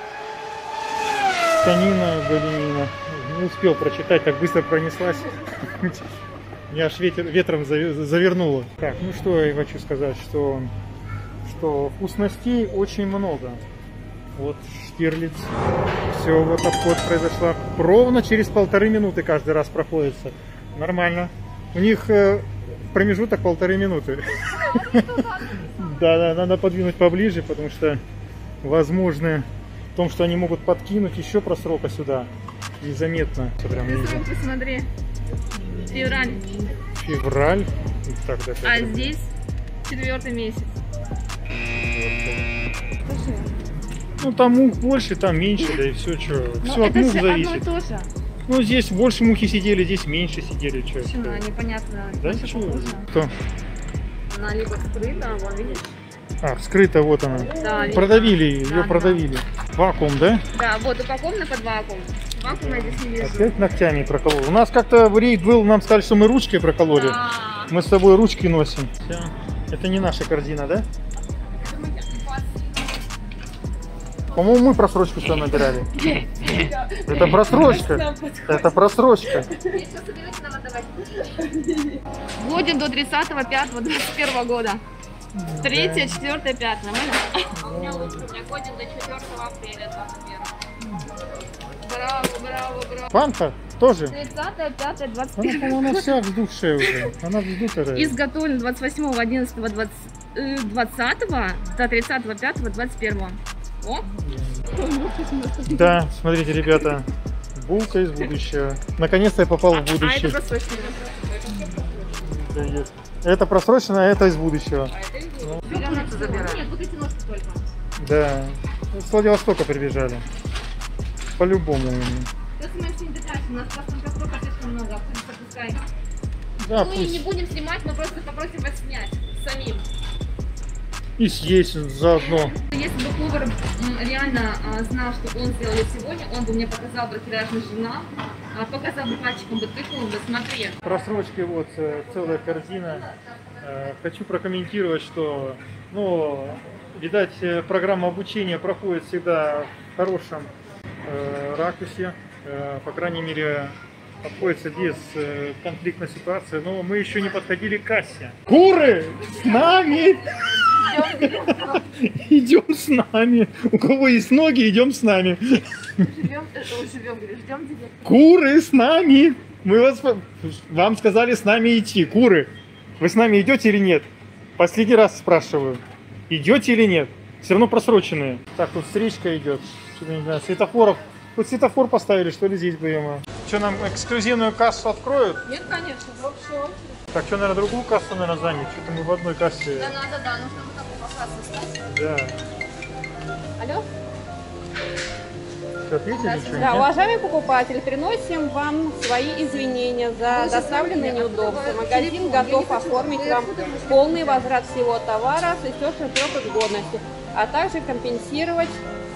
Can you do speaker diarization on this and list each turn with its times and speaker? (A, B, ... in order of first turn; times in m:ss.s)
0:01.6-0:06.0 A
0:06.7-0:10.7 A
0:11.4-0:13.6 A
0:14.4-0:15.5 A
0:16.1-0:28.0 A
0:24.5-0:26.0 B
0:28.6-0:32.3 A
0:32.8-0:34.2 A
0:33.8-0:34.9 B
0:35.7-0:36.2 A
0:35.9-0:36.6 B
0:37.0-0:39.2 A
0:38.6-0:39.3 B
0:39.9-0:40.7 B
0:41.7-0:42.5 A
0:43.0-0:43.5 B
0:44.2-0:47.6 A
0:46.6-0:48.1 B
0:48.5-0:51.4 A
0:51.0-0:53.1 B
0:52.2-0:53.3 A
0:54.3-0:55.9 B
0:56.4-1:00.4 A
0:57.5-0:59.2 B
0:57.5-0:58.0 C
1:00.5-1:03.6 B
1:02.4-1:07.2 A
1:06.9-1:07.7 B
1:07.7-1:10.9 A
1:11.5-1:12.8 B
1:14.4-1:15.9 A
1:16.0-1:18.7 C
1:17.1-1:19.5 A
1:19.4-1:19.8 C
1:19.7-1:21.1 B
1:21.4-1:22.0 C
1:22.4-1:24.8 B
1:25.4-1:26.2 A
1:25.6-1:30.5 B
1:27.6-1:28.3 A
1:31.8-1:33.1 B
1:33.1-1:34.2 A
1:34.1-1:36.2 B
1:35.4-1:38.2 A
1:38.0-1:44.1 B
1:44.1-1:44.6 A
1:44.8-1:45.4 B
1:45.7-1:50.4 A
1:49.7-1:52.1 B
1:51.5-1:51.9 C
1:52.2-1:55.7 A
1:54.9-1:57.7 B
1:55.6-1:56.7 C
1:58.0-2:00.2 A
2:01.4-2:02.3 A
2:02.6-2:05.8 B
2:06.6-2:07.2 A
2:06.7-2:09.8 B
2:11.2-2:12.6 A
2:12.6-2:20.8 B
2:20.8-2:23.1 A
2:23.6-2:30.5 A
2:31.0-2:46.1 A
2:40.6-2:41.8 B
2:46.1-2:48.0 B
2:48.0-2:54.1 A
2:54.6-3:05.4 A
3:05.5-3:07.0 C
3:07.1-3:09.9 A
3:09.8-3:11.8 B
3:11.9-3:12.4 A
3:13.6-3:13.9 B
3:15.8-3:16.9 A
3:16.1-3:16.9 B
3:16.6-3:28.8 C
3:20.3-3:24.5 B